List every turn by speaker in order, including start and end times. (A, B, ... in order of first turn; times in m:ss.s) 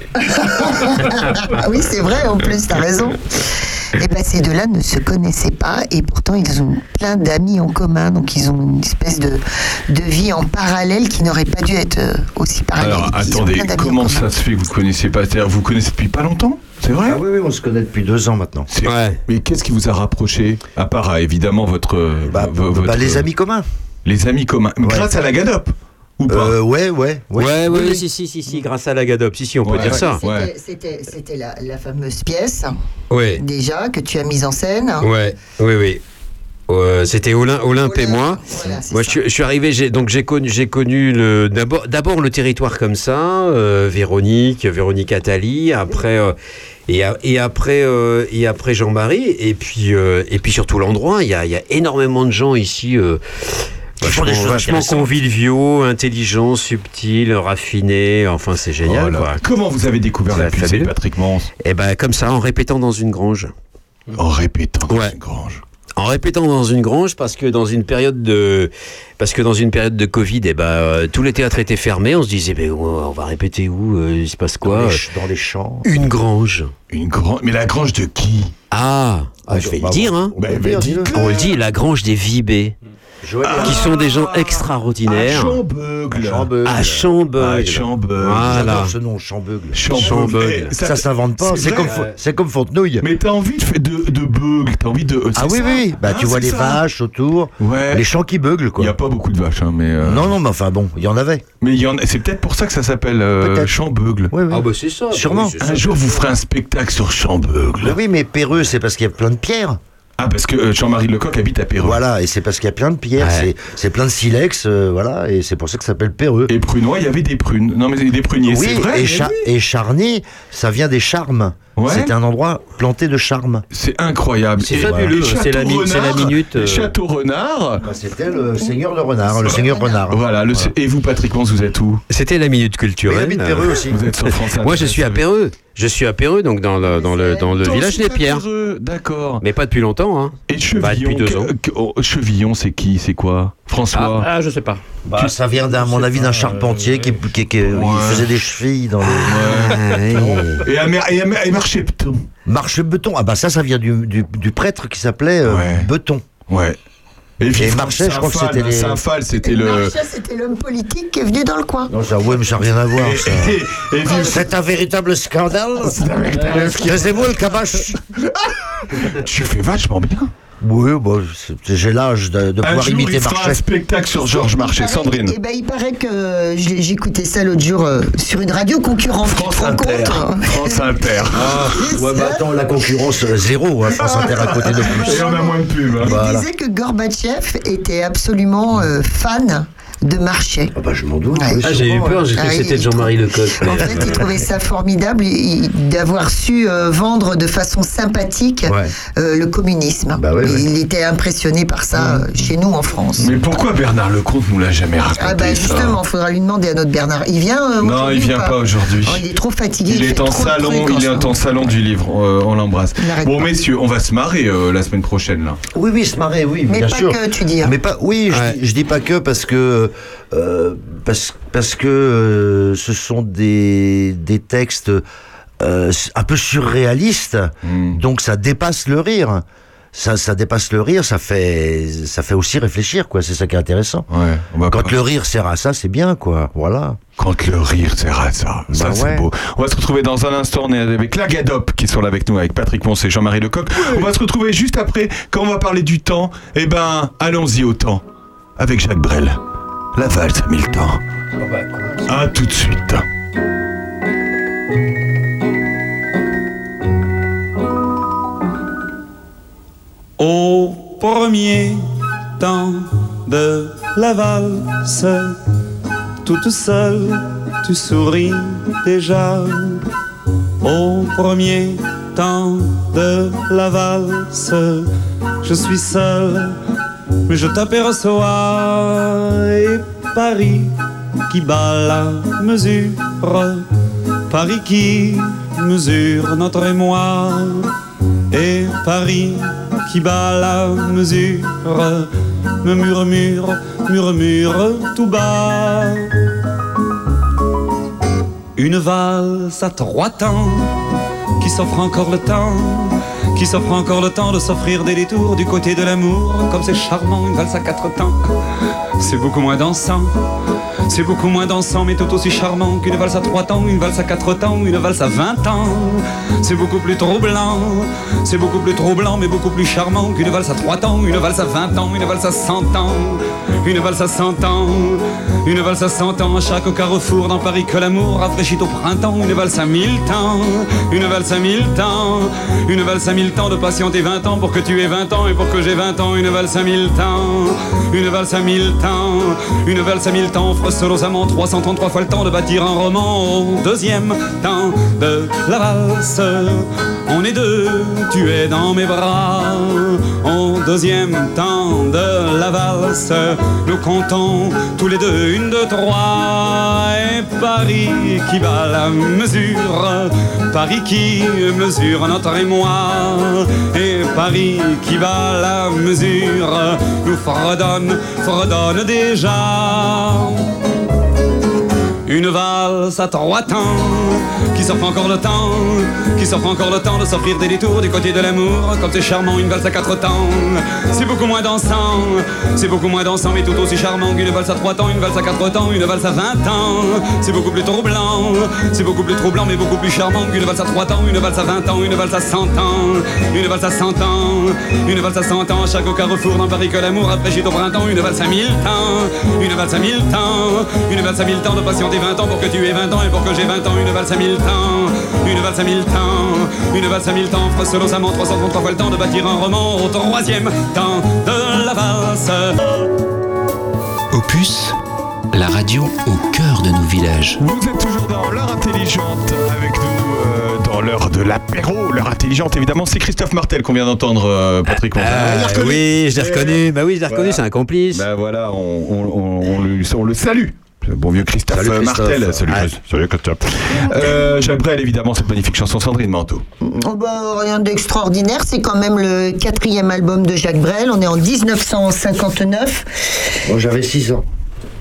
0:00.2-0:14.2 A
0:12.8-0:17.2 B
0:17.0-0:18.7 C
0:18.7-0:23.2 B
0:18.8-0:19.2 D
0:22.3-0:23.6 C
0:24.0-0:26.6 B
0:24.8-0:25.1 C
0:26.3-0:28.0 C
0:27.4-0:30.2 D
0:29.6-0:30.5 B
0:30.0-0:32.7 A
0:33.1-0:33.4 D
0:33.4-0:35.1 A
0:35.0-0:36.0 D
0:36.7-0:46.4 D
0:37.7-0:39.2 A
0:46.9-0:59.4 D
0:54.0-0:55.1 C
0:58.8-1:01.5 B
1:00.3-1:00.9 D
1:01.6-1:03.5 D
1:04.1-1:05.6 B
1:04.9-1:05.1 D
1:06.0-1:15.0 D
1:14.6-1:16.1 C
1:15.8-1:16.7 D
1:16.9-1:18.5 B
1:18.7-1:20.4 D
1:19.4-1:21.2 C
1:20.4-1:21.6 B
1:21.1-1:22.7 D
1:23.2-1:24.0 C
1:23.4-1:26.5 B
1:23.6-1:25.6 D
1:26.1-1:27.1 C
1:26.6-1:28.9 D
1:27.3-1:28.9 B
1:28.3-1:33.0 C
1:29.7-1:32.0 B
1:29.9-1:30.7 D
1:31.7-1:32.1 D
1:33.0-1:36.8 B
1:35.3-1:38.9 C
1:37.6-1:38.0 B
1:38.8-1:40.4 B
1:40.0-1:41.4 C
1:41.6-1:44.3 B
1:43.4-1:43.7 C
1:44.3-1:45.6 C
1:44.5-1:46.3 D
1:45.6-1:48.0 B
1:47.8-1:49.8 C
1:50.2-1:52.0 B
1:51.8-1:56.5 C
1:53.2-1:53.5 D
1:56.5-1:59.3 B
1:58.4-2:03.6 C
2:01.8-2:02.1 B
2:03.7-2:07.8 B
2:04.6-2:06.9 D
2:04.7-2:05.2 C
2:07.8-2:10.7 C
2:09.3-2:10.0 A
2:09.4-2:12.0 B
2:12.1-2:18.4 D
2:13.0-2:14.0 C
2:13.9-2:15.2 B
2:16.9-2:17.7 A
2:17.4-2:19.4 B
2:19.4-2:21.5 D
2:20.5-2:24.3 B
2:23.9-2:25.2 D
2:25.0-2:29.5 C
2:27.6-2:28.3 B
2:29.0-2:30.6 D
2:29.2-2:32.2 B
2:30.2-2:30.5 C
2:32.4-2:36.2 C
2:35.4-2:35.9 B
2:36.5-2:36.8 B
2:37.4-2:39.9 B
2:37.6-2:39.0 C
2:39.4-2:41.9 A
2:41.9-2:48.0 C
2:43.0-2:44.5 B
2:45.8-2:47.3 B
2:48.2-2:50.3 B
2:50.6-2:53.6 C
2:52.6-2:55.3 B
2:54.2-3:00.8 A
2:59.2-3:01.8 B
3:01.4-3:05.3 C
3:01.8-3:02.4 A
3:04.8-3:06.1 B
3:04.8-3:10.7 A
3:06.0-3:06.4 C
3:10.8-3:12.4 C
3:11.3-3:11.6 A
3:11.6-3:14.3 D
3:12.3-3:23.3 A
3:13.7-3:14.0 C
3:20.2-3:20.6 C
3:23.2-3:26.0 B
3:25.2-3:31.3 A
3:27.8-3:29.2 B
3:29.8-3:35.6 B
3:33.0-3:33.4 A
3:35.7-3:45.0 C
3:36.7-3:37.7 A
3:38.3-3:38.6 D
3:45.6-3:54.0 C
3:47.6-3:48.0 B
3:54.1-3:55.0 B
3:54.7-3:57.0 C
3:57.2-4:08.0 B
3:58.7-3:59.3 C
4:08.6-4:09.4 B
4:09.9-4:11.0 B
4:11.4-4:11.7 D
4:12.0-4:13.0 B
4:20.2-4:21.8 E
4:22.4-4:25.4 E
4:26.2-4:29.8 E
4:30.6-4:34.9 E
4:35.4-4:36.6 E
4:37.3-4:40.7 E
4:41.3-4:43.6 E
4:44.3-4:47.7 E
4:48.3-4:52.1 E
4:52.6-4:56.1 E
4:58.6-5:00.7 E
5:01.4-5:08.3 E
5:09.0-5:10.1 E
5:10.9-6:10.4 E
6:12.0-6:52.8 E
6:54.1-6:54.7 F
6:55.3-6:57.4 F
6:57.4-7:16.4 B
7:04.7-7:08.0 D
7:11.5-7:12.7 C
7:16.6-7:22.8 A
7:23.4-7:24.2 C